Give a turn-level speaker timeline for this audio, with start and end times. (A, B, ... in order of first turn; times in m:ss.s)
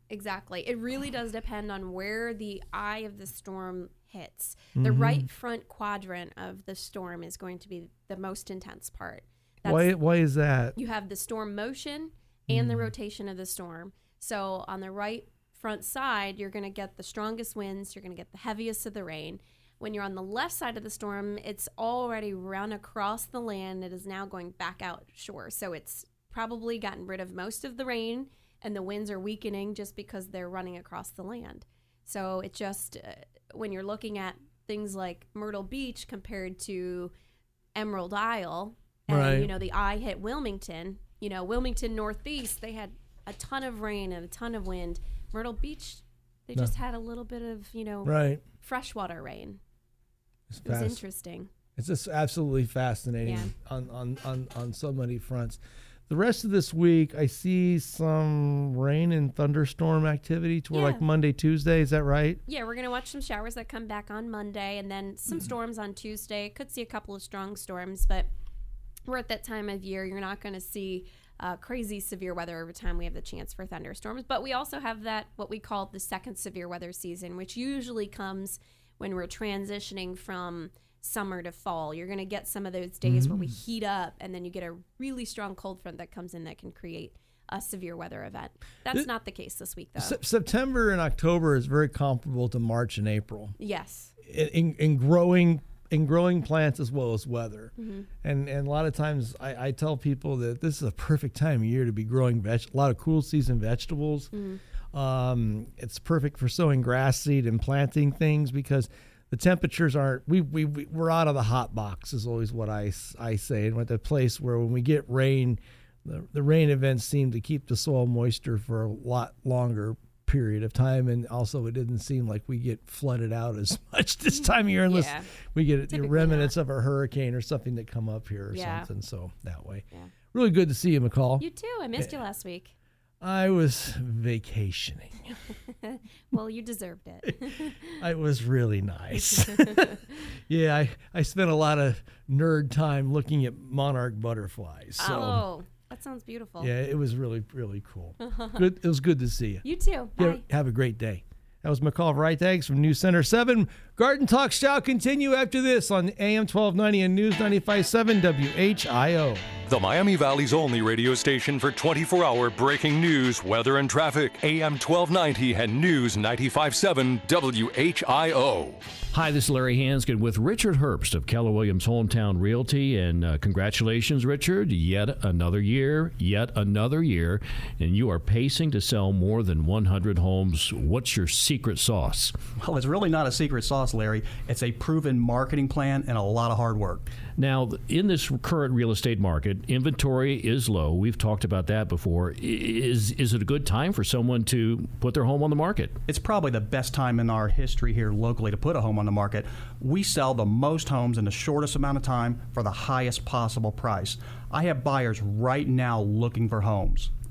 0:00.1-0:10.0 A
0:04.8-0:05.3 B
0:09.7-0:10.8 B
0:10.8-0:37.1 A
0:12.5-0:12.9 B
0:37.8-0:49.6 A
0:39.1-0:39.5 B
0:48.0-0:48.4 B
0:50.5-0:51.0 B
0:50.6-0:51.5 A
0:51.8-1:02.4 B
0:53.2-0:53.5 A
1:00.7-1:01.0 A
1:02.5-1:08.3 A
1:09.1-1:30.2 A
1:23.0-1:23.5 B
1:30.0-1:33.6 B
1:33.6-1:34.1 A
1:34.2-1:37.7 B
1:37.8-1:38.1 A
1:38.2-1:44.3 B
1:44.3-1:44.6 A
1:44.9-2:11.4 B
2:04.9-2:05.3 A
2:05.9-2:06.5 A
2:08.5-2:08.9 A
2:11.4-2:12.8 A
2:13.2-2:15.2 B
2:15.8-2:18.0 A
2:18.0-2:25.4 B
2:19.3-2:20.2 A
2:25.0-2:26.7 A
2:26.6-2:29.6 B
2:28.2-2:28.6 A
2:29.6-2:30.4 A
2:30.2-2:39.5 B
2:39.7-2:48.8 C
2:49.1-3:02.4 D
3:02.6-3:07.1 E
3:07.4-3:16.0 D
3:16.1-3:27.1 E